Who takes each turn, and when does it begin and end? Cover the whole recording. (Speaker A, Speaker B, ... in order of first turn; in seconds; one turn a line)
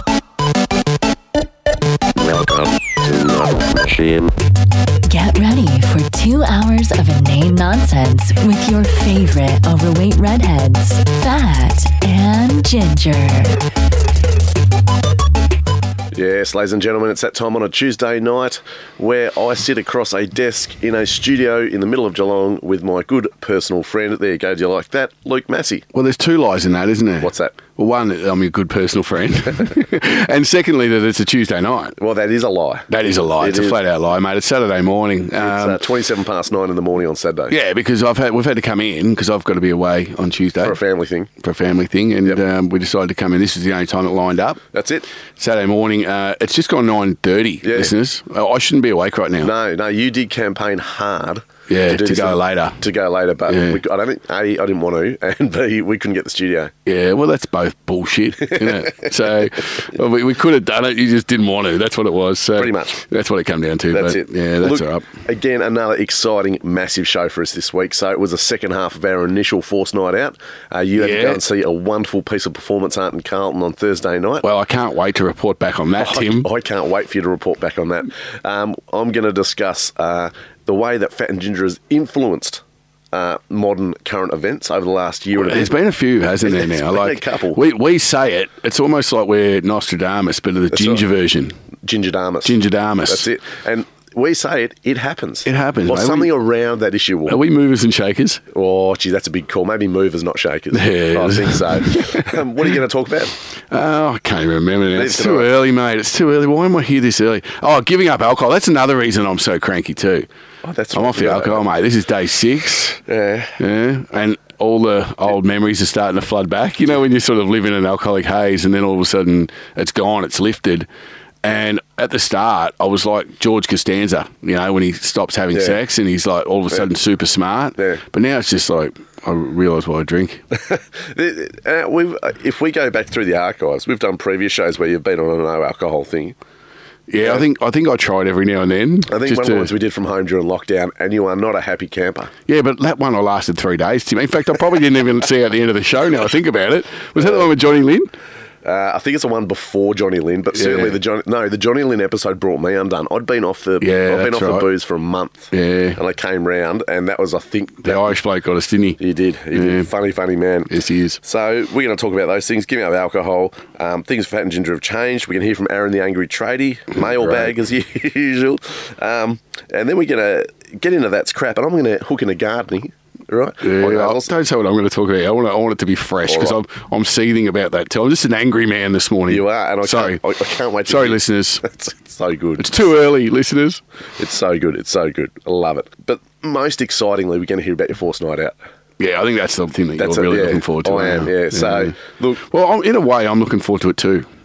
Speaker A: 2.1-4.3
Speaker B: 5.0-13.6
Speaker C: 16.1-25.8
Speaker D: 25.9-32.0
Speaker C: 27.2-27.6
Speaker C: 32.0-33.8
Speaker D: 32.9-35.8
Speaker C: 35.4-37.5
Speaker D: 37.5-40.8
Speaker C: 40.6-41.3
Speaker D: 41.4-44.6
Speaker C: 44.7-45.1
Speaker D: 45.4-49.5
Speaker C: 47.6-47.9
Speaker C: 49.4-56.7
Speaker D: 51.7-52.8
Speaker D: 53.5-53.8
Speaker D: 56.9-65.1
Speaker C: 58.5-59.1
Speaker C: 62.5-63.0
Speaker C: 63.9-74.4
Speaker D: 71.0-71.4
Speaker D: 74.4-76.5
Speaker C: 76.0-85.7
Speaker D: 85.3-91.5
Speaker C: 86.4-87.6
Speaker C: 90.7-91.0
Speaker C: 91.8-97.4
Speaker D: 92.4-93.2
Speaker D: 95.4-96.3
Speaker D: 97.3-98.4
Speaker C: 98.5-103.3
Speaker D: 100.7-102.3
Speaker D: 103.7-110.3
Speaker C: 104.9-105.5
Speaker C: 110.6-111.6
Speaker D: 110.9-113.0
Speaker C: 113.1-113.6
Speaker D: 113.6-120.9
Speaker D: 121.4-130.4
Speaker C: 125.5-125.8
Speaker C: 130.5-136.3
Speaker D: 137.1-139.7
Speaker C: 139.1-142.3
Speaker D: 142.5-148.1
Speaker C: 147.2-147.5
Speaker C: 148.6-158.1
Speaker D: 150.5-151.0
Speaker D: 153.8-154.7
Speaker D: 155.5-156.0
Speaker D: 157.8-159.0
Speaker C: 159.0-160.7
Speaker D: 159.5-159.9
Speaker D: 160.7-161.2
Speaker C: 161.2-174.3
Speaker D: 166.9-167.5
Speaker D: 173.6-180.2
Speaker C: 176.2-176.6
Speaker C: 179.3-182.9
Speaker D: 180.8-181.7
Speaker D: 182.6-183.8
Speaker C: 184.2-188.5
Speaker D: 189.0-194.3
Speaker C: 190.0-192.4